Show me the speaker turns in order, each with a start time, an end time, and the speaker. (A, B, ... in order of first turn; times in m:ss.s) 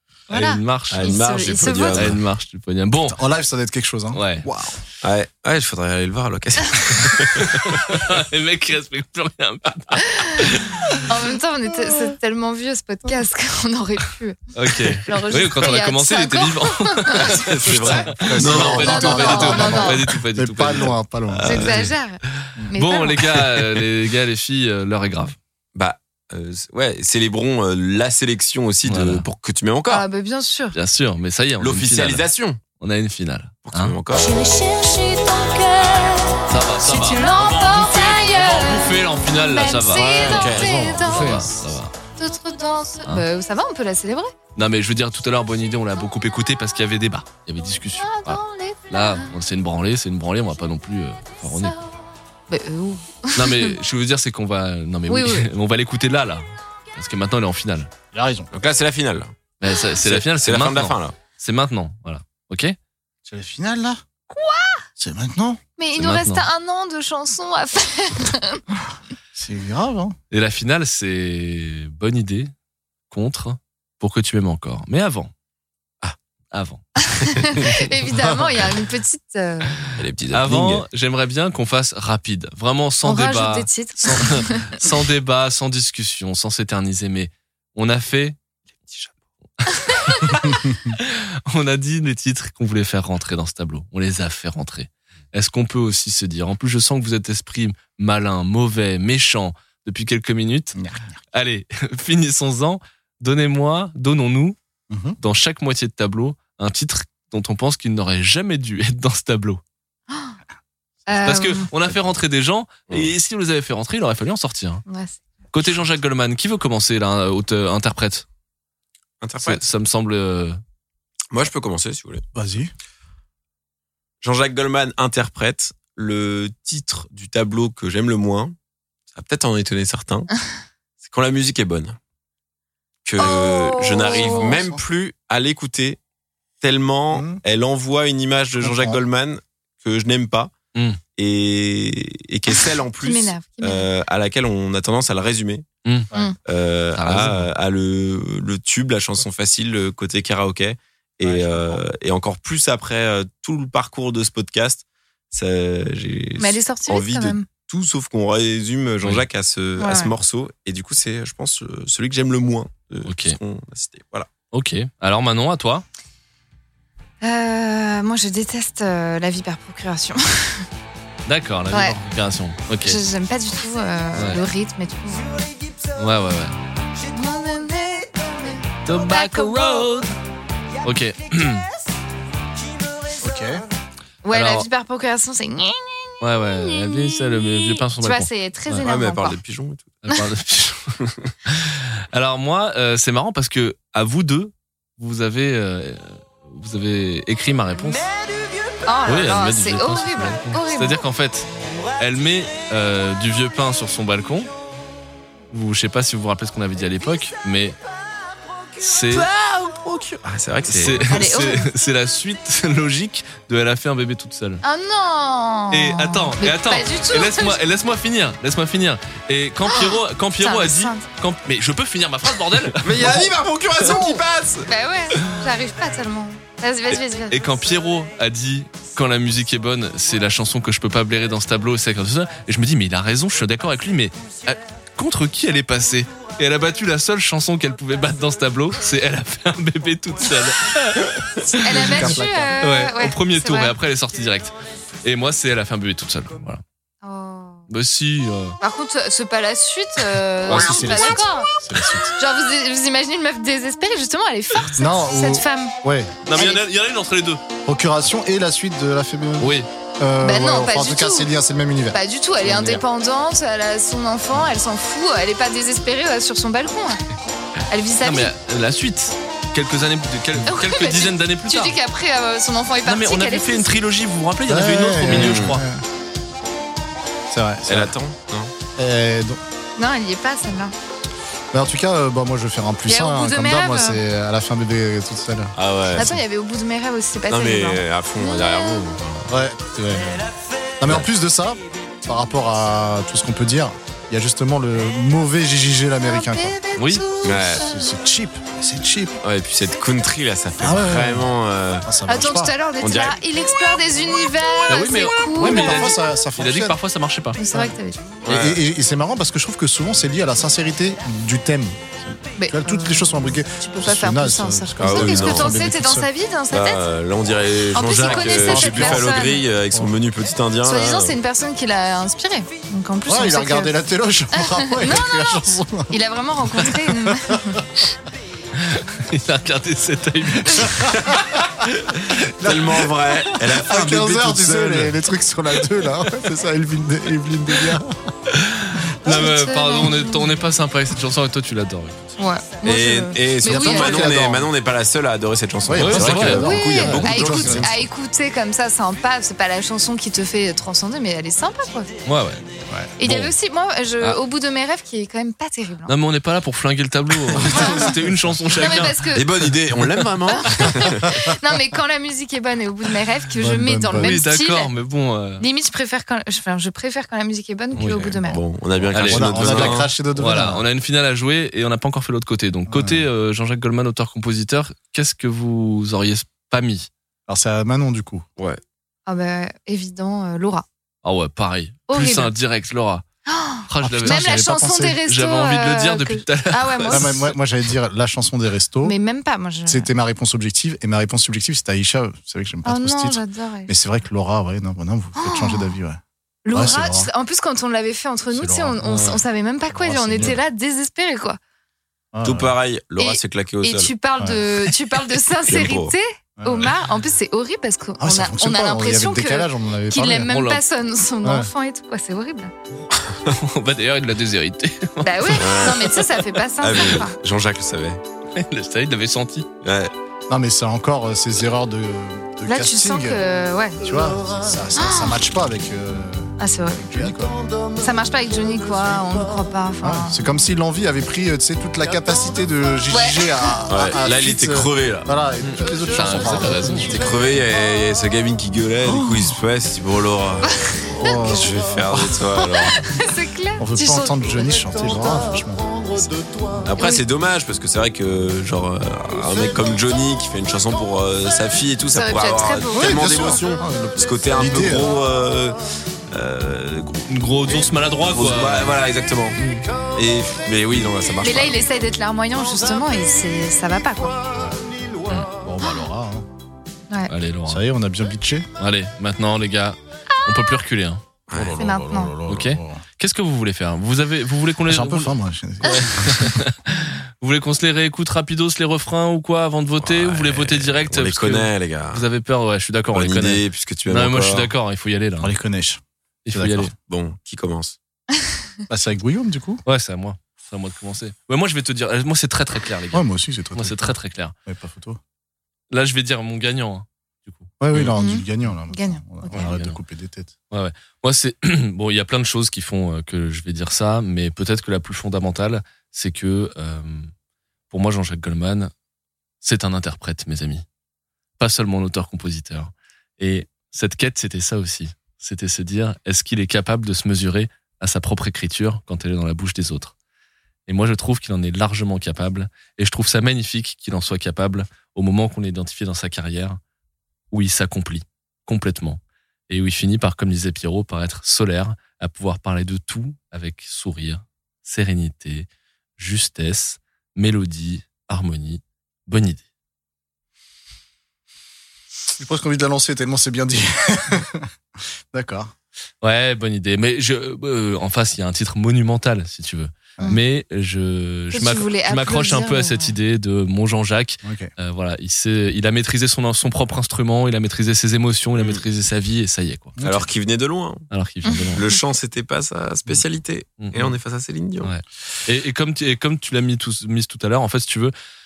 0:00.3-0:01.2 A
0:00.3-0:02.1 B
0:00.9-0:02.2 C
0:01.9-0:03.2 A
0:03.1-0:04.8 D
0:04.1-0:04.4 A
0:05.0-0:08.0 C
0:07.4-0:11.0 A
0:10.1-0:10.5 B
0:11.0-0:18.0 B
0:14.6-0:21.9 A
0:17.3-0:19.8 C
0:18.2-0:21.7 D
0:18.6-0:20.1 B
0:21.4-0:21.9 C
0:21.4-0:23.3 B
0:22.7-0:25.4 A
0:25.8-0:30.0 C
0:28.8-0:29.2 A
0:29.9-0:30.8 B
0:30.7-0:32.3 A
0:31.6-0:32.6 C
0:32.8-0:34.0 A
0:33.6-0:34.3 C
0:34.2-0:38.2 E
0:36.5-0:41.9 A
0:37.0-0:41.6 B
0:40.2-0:41.2 C
0:42.2-0:44.3 B
0:44.6-0:51.8 A
0:48.0-0:49.3 B
0:52.5-0:53.8 B
0:53.4-0:57.9 A
0:55.1-0:55.5 B
0:58.1-0:58.5 D
0:58.5-0:59.4 C
0:59.6-1:02.8 A
1:00.0-1:01.2 C
1:03.2-1:04.0 D
1:04.3-1:04.8 B
1:05.0-1:05.6 D
1:05.8-1:08.6 B
1:06.0-1:06.5 A
1:09.4-1:10.2 D
1:10.3-1:12.5 A
1:13.1-1:15.3 A
1:16.5-1:16.8 A
1:17.2-1:19.8 B
1:17.4-1:17.8 A
1:20.0-1:20.8 C
1:20.3-1:28.9 A
1:23.0-1:24.8 B
1:29.6-1:40.8 A
1:40.8-1:41.2 D
1:41.3-1:44.6 A
1:44.9-1:45.2 D
1:45.2-1:49.6 A
1:50.1-1:50.4 B
1:51.1-1:51.7 B
1:51.2-1:54.8 A
1:54.9-1:55.2 B
1:55.5-1:58.2 A
1:59.2-1:59.6 C
1:59.4-2:00.6 A
2:01.3-2:02.2 C
2:02.3-2:02.7 D
2:04.2-2:08.6 C
2:09.1-2:10.3 C
2:11.0-2:12.0 C
2:13.0-2:16.0 C
2:13.2-2:14.6 B
2:14.3-2:14.8 D
2:16.6-2:20.5 C
2:17.1-2:17.4 D
2:18.6-2:19.0 D
2:20.8-2:21.0 A
2:21.2-2:25.7 C
2:23.0-2:23.9 B
2:26.4-2:44.3 C
2:27.0-2:27.5 A
2:31.2-2:31.8 D
2:36.4-2:37.5 B
2:39.8-2:40.1 B
2:43.0-2:43.4 A
2:44.5-2:45.8 A
2:47.2-2:50.7 B
2:51.3-2:53.0 A
2:51.7-2:52.0 B
2:52.8-2:55.3 B
2:54.2-2:54.4 A
2:56.0-2:56.6 A
2:57.1-2:59.8 B
2:58.9-3:00.1 A
3:00.8-3:01.7 A
3:03.2-3:03.6 D
3:04.2-3:09.4 B
3:04.3-3:04.7 A
3:06.2-3:08.8 A
3:08.8-3:10.0 C
3:10.0-3:18.1 A
3:11.0-3:11.3 C
3:18.8-3:21.0 B
3:19.1-3:24.5 A
3:25.5-3:27.8 A
3:28.8-3:29.3 A
3:29.2-3:31.2 C
3:30.7-3:34.6 A
3:31.1-3:31.7 B
3:34.6-3:37.6 B
3:35.7-3:43.3 A
3:39.7-3:41.0 B
3:42.8-3:44.7 C
3:44.7-3:47.4 B
3:47.3-4:06.6 A
4:01.6-4:03.8 B
4:01.7-4:02.6 D
4:07.0-4:07.7 B
4:07.7-4:08.6 A
4:08.6-4:11.5 B
4:10.5-4:12.1 D
4:10.5-4:11.2 A
4:12.2-4:15.8 B
4:14.8-4:16.2 D
4:16.3-4:17.4 A
4:16.3-4:16.6 B
4:17.7-4:22.8 D
4:19.4-4:19.7 A
4:20.2-4:21.3 B
4:21.9-4:27.0 B
4:27.7-4:28.3 B
4:28.0-4:31.8 A
4:30.5-4:33.7 B
4:32.8-4:35.6 A
4:34.5-4:35.8 D
4:35.1-4:35.6 C
4:37.3-4:38.0 D
4:37.7-4:38.5 C
4:38.8-4:39.4 D
4:39.8-4:40.7 B
4:41.5-4:46.2 D
4:42.9-4:44.0 B
4:45.6-4:46.1 C
4:46.0-4:49.0 B
4:47.3-4:49.3 C
4:49.3-4:50.3 D
4:50.8-4:56.6 D
4:56.0-4:57.8 B
4:56.8-4:57.0 A
4:57.2-4:57.7 C
4:57.3-4:59.2 D
4:59.2-5:01.9 C
5:00.6-5:01.3 D
5:01.8-5:02.5 D
5:02.1-5:05.9 B
5:02.8-5:03.2 C
5:04.7-5:07.4 A
5:05.4-5:06.8 D
5:07.4-5:08.0 B
5:08.2-5:08.6 C
5:08.3-5:16.1 D
5:12.4-5:16.8 B
5:14.8-5:15.6 C
5:16.5-5:21.2 C
5:17.7-5:19.4 B
5:18.2-5:19.2 D
5:20.6-5:23.8 B
5:23.1-5:25.9 D
5:24.4-5:27.6 B
5:26.5-5:27.6 D
5:28.6-5:31.1 A
5:32.2-5:35.0 C
5:32.4-5:38.0 D
5:38.3-5:42.0 A
5:39.0-5:40.4 B
5:42.2-5:44.2 B
5:42.6-5:47.8 C
5:43.4-5:44.5 D
5:45.6-5:47.9 D
5:45.8-5:46.5 A
5:46.4-5:51.9 B
5:52.0-5:52.4 A
5:53.0-5:56.0 B
5:53.1-5:53.3 A
5:55.9-5:59.1 A
5:57.4-5:57.9 B
5:57.4-5:58.4 D
5:58.5-5:59.3 B
5:59.1-6:01.2 C
6:00.3-6:04.7 B
6:03.4-6:04.2 D
6:04.0-6:05.4 A
6:05.4-6:08.4 B
6:07.8-6:08.1 A
6:07.8-6:09.9 C
6:08.9-6:16.9 A
6:09.0-6:10.7 D
6:12.7-6:13.1 D
6:17.3-6:18.2 D
6:19.1-6:20.7 B
6:21.0-6:23.0 A
6:21.9-6:22.3 B
6:23.3-6:27.3 B
6:23.7-6:24.5 A
6:23.8-6:25.0 D
6:25.1-6:27.3 A
6:26.9-6:29.0 D
6:28.8-6:29.9 B
6:29.7-6:36.0 D
6:32.6-6:33.7 B
6:35.2-6:35.8 B
6:36.4-6:41.4 B
6:36.5-6:37.1 D
6:38.3-6:39.2 D
6:38.9-6:39.1 A
6:39.7-6:40.4 D
6:42.1-6:42.6 D
6:42.2-6:43.9 C
6:43.0-6:52.5 B
6:45.5-6:46.0 C
6:46.4-6:46.7 D
6:48.0-6:50.3 D
6:50.3-6:50.6 A
6:51.2-6:51.5 D
6:53.0-6:53.3 C
6:53.3-6:56.0 A
6:55.0-6:57.2 B
6:55.3-6:56.0 C
6:56.6-6:58.0 C
6:58.4-6:59.5 A
6:59.6-6:59.9 C
7:00.3-7:03.2 D
7:02.5-7:03.8 B
7:03.8-7:07.4 D
7:04.8-7:05.2 B
7:06.4-7:07.1 B
7:07.8-7:10.2 B
7:09.8-7:17.4 D
7:12.9-7:13.6 B
7:13.7-7:15.1 C
7:15.4-7:17.0 A
7:16.9-7:20.5 C
7:18.8-7:19.3 D
7:20.5-7:21.4 B
7:20.9-7:22.2 D
7:21.2-7:22.8 C
7:22.6-7:24.6 B
7:23.6-7:25.9 D
7:26.6-7:37.2 C
7:26.8-7:27.0 B
7:31.9-7:33.3 B
7:32.7-7:35.0 D
7:37.1-7:38.8 A
7:38.0-7:39.4 C
7:39.4-7:39.7 A
7:40.0-7:41.6 C
7:41.2-7:44.2 B
7:45.4-7:46.3 D
7:47.1-7:47.6 A
7:47.5-7:48.5 D
7:48.6-7:51.0 A
7:51.3-7:51.6 C
7:51.3-7:52.8 D
7:51.6-7:52.1 B
7:52.3-8:05.3 A
7:54.7-7:56.4 D
7:59.8-8:02.1 C
8:02.9-8:04.5 C
8:05.2-8:06.7 D
8:06.3-8:06.7 A
8:06.9-8:07.8 C
8:08.7-8:09.6 D
8:09.7-8:14.3 A
8:12.9-8:14.0 D
8:14.5-8:15.0 D
8:15.7-8:17.9 A
8:17.6-8:20.3 D
8:18.0-8:19.5 B
8:19.3-8:19.8 A
8:20.5-8:27.1 A
8:27.7-8:28.7 A
8:29.4-8:30.6 A
8:31.4-8:39.9 A
8:40.7-8:46.6 A
8:47.3-8:55.5 A
8:56.0-8:59.4 A
9:02.2-9:04.5 D
9:05.1-9:05.5 D
9:06.0-9:19.8 A
9:11.3-9:13.0 B
9:14.2-9:14.5 D
9:18.4-9:18.6 C
9:19.8-9:20.1 D
9:19.8-9:20.9 C
9:20.9-9:21.6 A
9:21.3-9:21.5 B
9:21.5-9:24.7 C
9:23.6-9:24.0 A
9:24.6-9:27.9 A